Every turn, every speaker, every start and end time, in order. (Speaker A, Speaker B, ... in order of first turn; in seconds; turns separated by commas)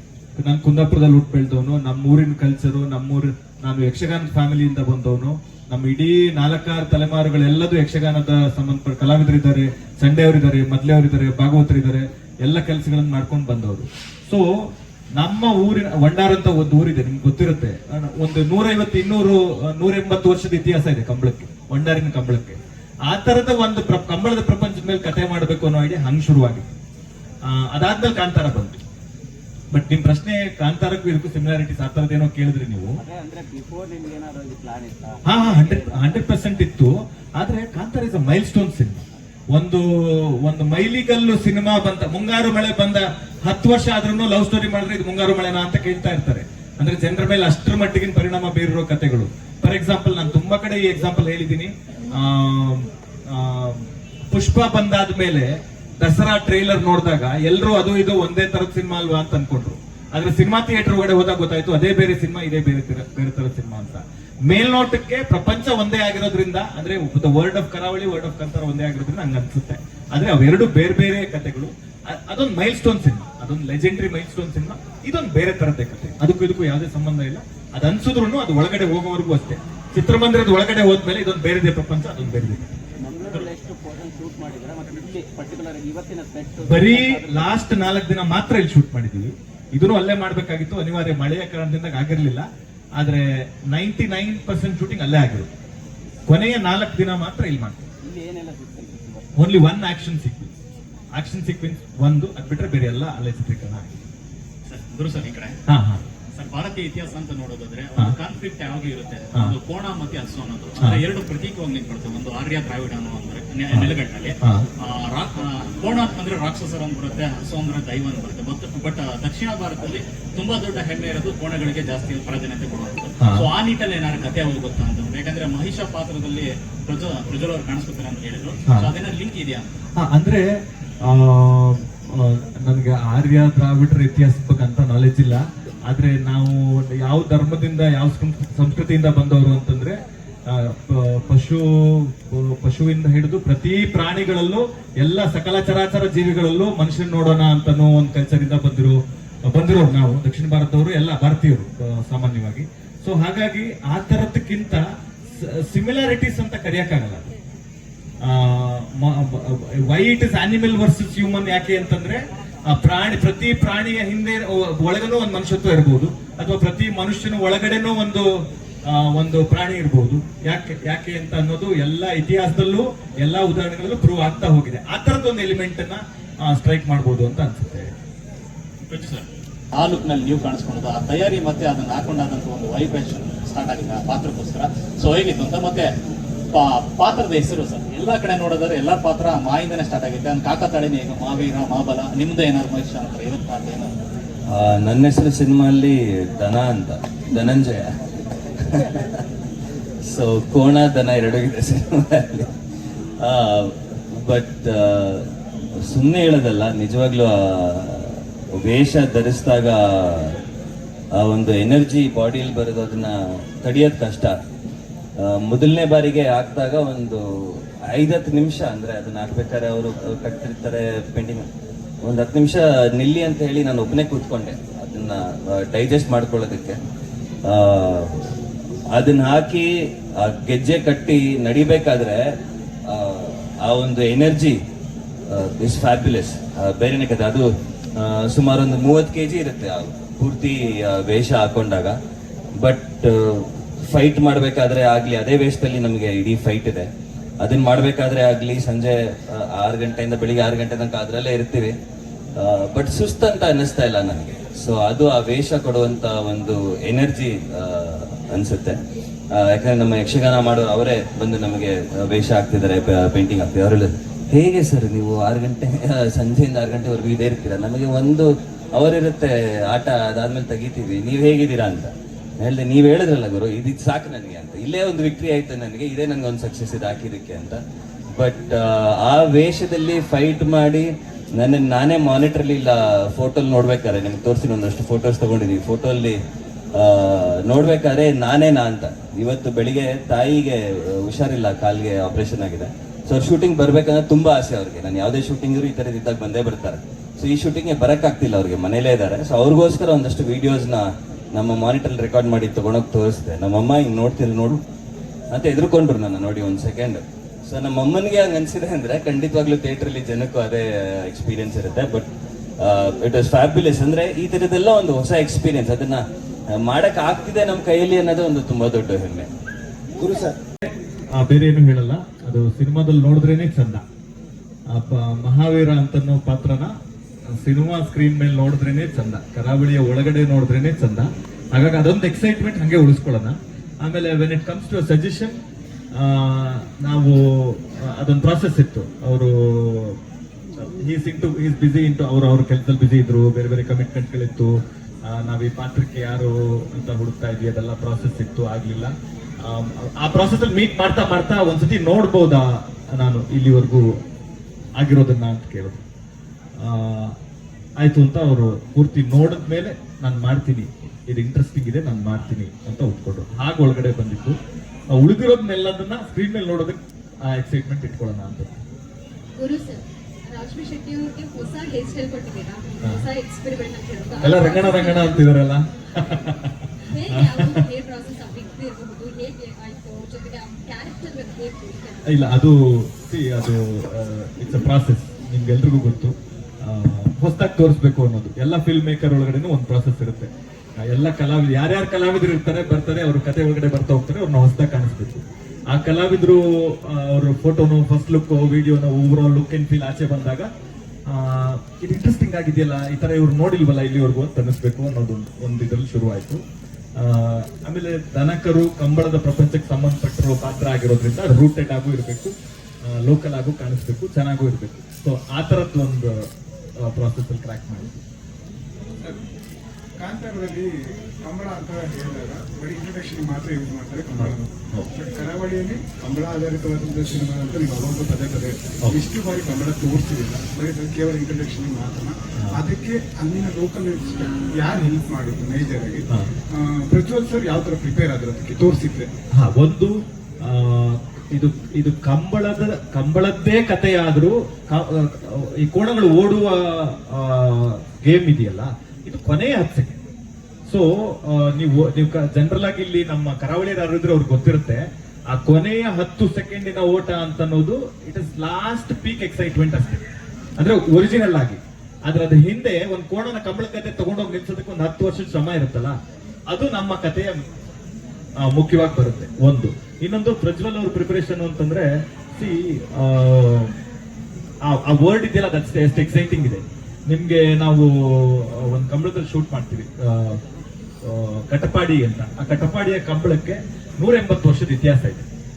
Speaker A: 0.4-26.7, Speaker A: 27.4-28.8, Speaker A: 29.7-33.0, Speaker B: 33.0-36.1, Speaker A: 35.2-82.7, Speaker B: 83.0-87.5, Speaker A: 86.6-92.5, Speaker A: 93.0-95.5, Speaker A: 96.3-97.8, Speaker B: 98.0-99.3, Speaker A: 99.4-100.5, Speaker A: 101.1-104.0, Speaker C: 104.7-105.6, Speaker A: 105.7-106.0, Speaker C: 106.3-129.7, Speaker A: 123.2-123.4, Speaker A: 130.0-130.4, Speaker A: 131.0-154.8, Speaker A: 155.3-157.3, Speaker A: 158.2-168.3, Speaker A: 168.8-177.9, Speaker C: 178.9-185.9, Speaker C: 186.5-193.9, Speaker D: 194.5-197.9, Speaker D: 198.6-199.2, Speaker D: 200.1-202.5, Speaker D: 203.2-205.3, Speaker D: 205.8-210.4, Speaker D: 211.2-214.3, Speaker D: 215.2-221.5, Speaker D: 222.0-226.8, Speaker D: 227.5-228.3, Speaker D: 228.9-229.7, Speaker D: 230.2-232.2, Speaker D: 232.9-234.6, Speaker D: 235.3-237.4, Speaker D: 238.0-241.9, Speaker D: 242.6-246.9, Speaker D: 247.4-251.7, Speaker D: 252.4-258.8, Speaker D: 259.4-277.6, Speaker D: 278.1-280.9, Speaker D: 281.4-286.2, Speaker D: 286.8-304.6, Speaker D: 305.3-312.1, Speaker D: 312.6-316.0, Speaker D: 316.5-319.3, Speaker B: 320.0-320.3, Speaker A: 321.1-323.8, Speaker A: 324.7-326.7, Speaker A: 327.3-335.4, Speaker A: 335.9-340.0, Speaker A: 340.6-353.9, Speaker A: 354.8-355.8, Speaker A: 356.6-357.1, Speaker A: 357.8-364.4, Speaker A: 364.9-368.6, Speaker E: 369.4-375.3, Speaker A: 374.2-377.7, Speaker E: 376.9-382.3, Speaker A: 382.0-400.5, Speaker A: 401.1-406.4, Speaker A: 407.0-416.2, Speaker A: 416.8-418.0, Speaker F: 420.0-420.7, Speaker F: 421.2-439.1, Speaker A: 424.2-424.9, Speaker A: 439.3-450.0, Speaker A: 450.7-460.0, Speaker A: 460.6-466.0, Speaker A: 466.5-467.4, Speaker A: 468.4-473.7, Speaker A: 474.6-480.4, Speaker A: 481.0-485.2